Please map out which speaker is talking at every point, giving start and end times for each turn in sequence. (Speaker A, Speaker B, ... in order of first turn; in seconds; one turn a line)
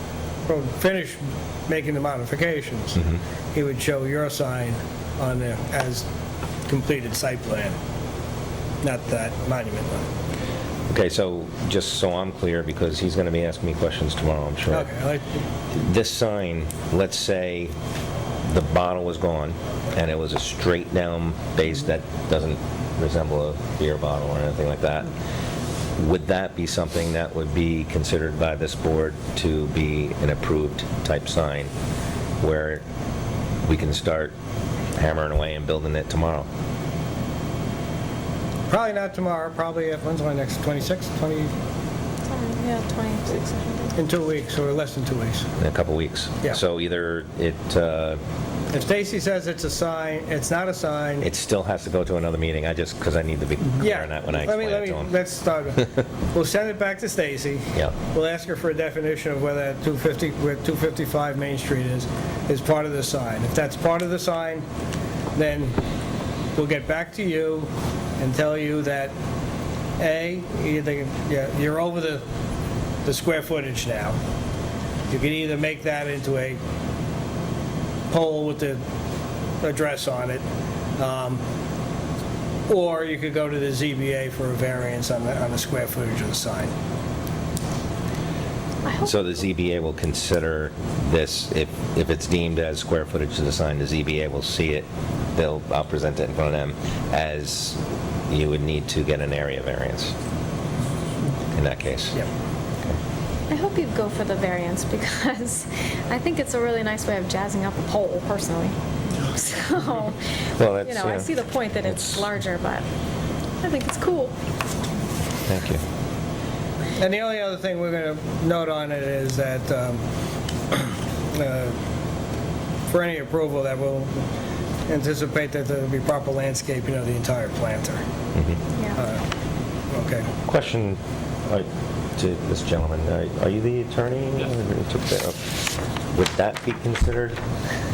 Speaker A: 0.5-3.0
Speaker A: 3.5-6.0
Speaker A: 6.7-7.8
Speaker A: 8.8-10.1
Speaker B: 10.9-14.9
Speaker A: 14.7-15.4
Speaker B: 15.7-17.7
Speaker B: 18.4-25.1
Speaker B: 26.0-31.7
Speaker B: 32.4-32.8
Speaker B: 33.6-34.3
Speaker B: 35.0-36.5
Speaker A: 38.7-41.5
Speaker C: 42.2-44.0
Speaker A: 44.0-45.5
Speaker B: 45.6-48.2
Speaker A: 48.7-51.3
Speaker B: 51.2-55.1
Speaker A: 53.8-64.6
Speaker A: 65.3-65.8
Speaker A: 66.5-69.1
Speaker A: 70.0-72.2
Speaker A: 73.0-74.2
Speaker A: 75.1-76.6
Speaker A: 78.1-78.8
Speaker A: 79.6-80.4
Speaker A: 81.0-81.4
Speaker A: 82.7-86.7
Speaker C: 88.8-89.3
Speaker B: 89.0-100.1
Speaker B: 101.5-102.2
Speaker C: 103.5-110.2
Speaker B: 110.6-112.3
Speaker C: 110.8-112.9
Speaker C: 113.6-114.3
Speaker B: 115.5-115.8
Speaker A: 117.0-120.0
Speaker A: 120.7-121.8
Speaker A: 122.9-124.2
Speaker A: 124.9-128.0
Speaker C: 128.7-129.0
Speaker A: 128.9-129.2
Speaker A: 129.9-130.3
Speaker B: 130.4-135.6
Speaker B: 136.1-137.4